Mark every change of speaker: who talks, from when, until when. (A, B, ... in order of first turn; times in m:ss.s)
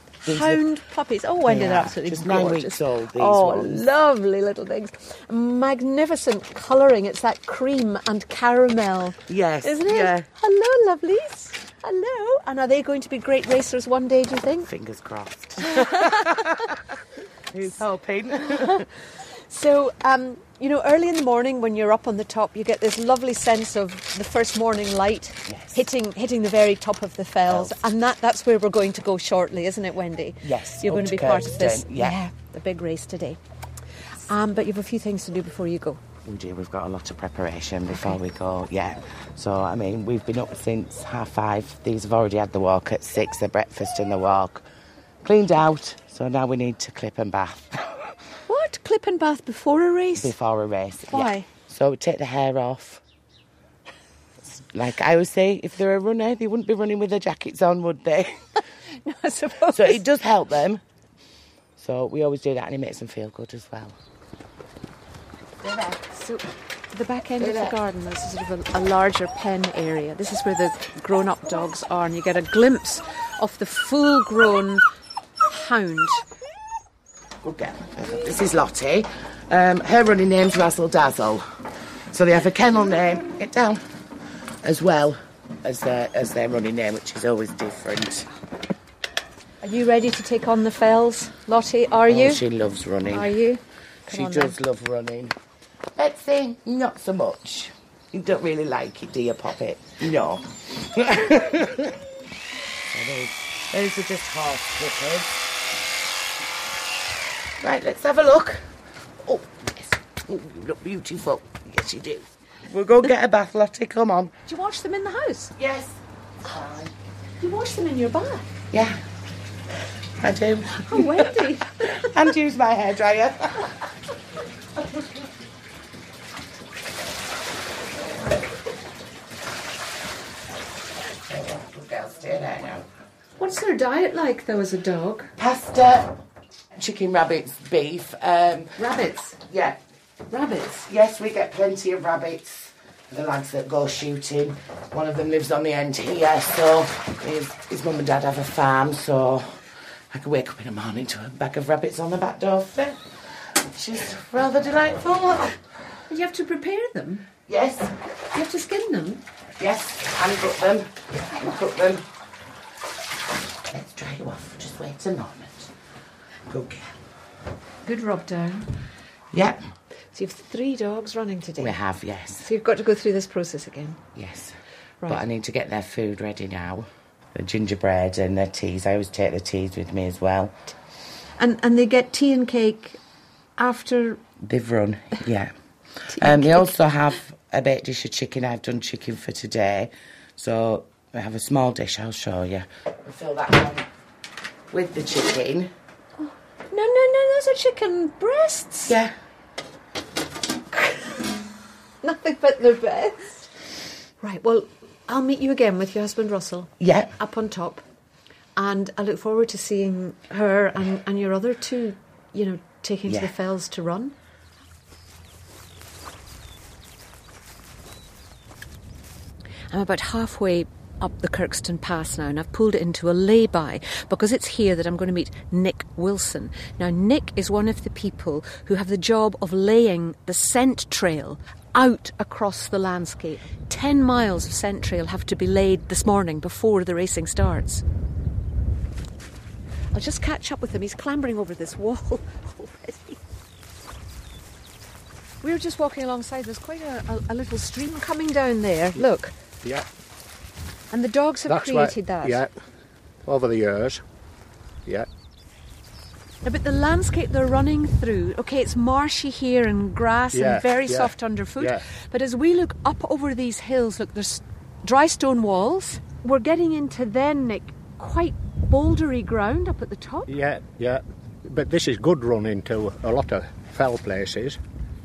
0:00.3-0:00.6 A
0:00.3-0:14.7 B
0:01.4-0:03.9 A
0:09.3-0:10.3 A
0:14.6-0:16.8 A
0:15.7-0:16.3 B
0:17.5-0:18.9 A
0:19.5-0:33.4 B
0:25.5-0:25.8 A
0:27.5-0:27.8 A
0:30.4-0:32.2 A
0:34.2-0:36.0 B
0:36.2-0:44.6 A
0:45.2-0:48.2 A
0:48.5-0:50.4 B
0:50.2-0:53.0 A
0:51.1-0:51.5 B
0:54.6-0:58.4 A
0:59.0-1:00.0 B
0:59.7-1:00.8 A
1:01.8-1:04.0 A
1:05.6-1:14.8 B
1:07.4-1:07.8 A
1:15.4-1:16.2 B
1:17.4-1:21.6 A
1:22.1-1:23.8 A
1:24.6-1:28.3 A
1:29.6-1:32.4 B
1:32.1-1:33.3 A
1:33.1-1:34.6 B
1:34.1-1:35.3 A
1:36.0-1:42.0 A
1:42.9-1:45.4 A
1:47.6-1:48.7 A
1:49.2-1:54.3 A
1:54.4-1:55.5 B
1:55.6-1:56.9 A
1:57.4-1:58.5 B
1:58.7-1:59.0 A
2:00.2-2:03.7 A
2:00.8-2:01.8 B
2:11.3-2:12.9 A
2:13.4-2:15.3 B
2:15.4-2:16.1 A
2:16.8-2:18.8 A
2:18.8-2:19.4 B
2:19.4-2:19.8 A
2:20.3-2:20.9 B
2:20.8-2:29.6 A
2:30.1-2:33.1 A
2:33.6-2:35.6 A
2:36.1-2:37.3 B
2:37.5-2:37.9 A
2:38.3-2:39.2 B
2:39.6-2:42.0 A
2:43.7-2:45.7 A
2:46.5-2:46.9 A
2:47.8-2:48.7 B
2:49.3-2:49.6 A
2:50.1-2:51.8 B
2:51.6-2:52.5 A
2:52.4-2:54.0 B
2:54.2-2:54.5 A
2:55.0-3:00.6 A
3:01.4-3:03.0 B
3:03.6-3:04.2 B
3:04.4-3:05.5 A
3:06.1-3:13.9 A
3:06.2-3:06.7 B
3:14.7-3:15.7 A
3:16.2-3:19.0 B
3:22.0-3:23.3 B
3:24.2-3:27.8 B
3:26.8-3:27.1 A
3:28.6-3:34.2 B
3:39.7-3:57.8 B
3:59.9-4:03.2 B
4:05.4-4:09.3 B
4:10.9-4:12.4 B
4:11.5-4:12.6 C
4:13.2-4:14.0 C
4:16.4-4:30.3 B
4:20.3-4:21.8 C
4:30.3-4:34.6 C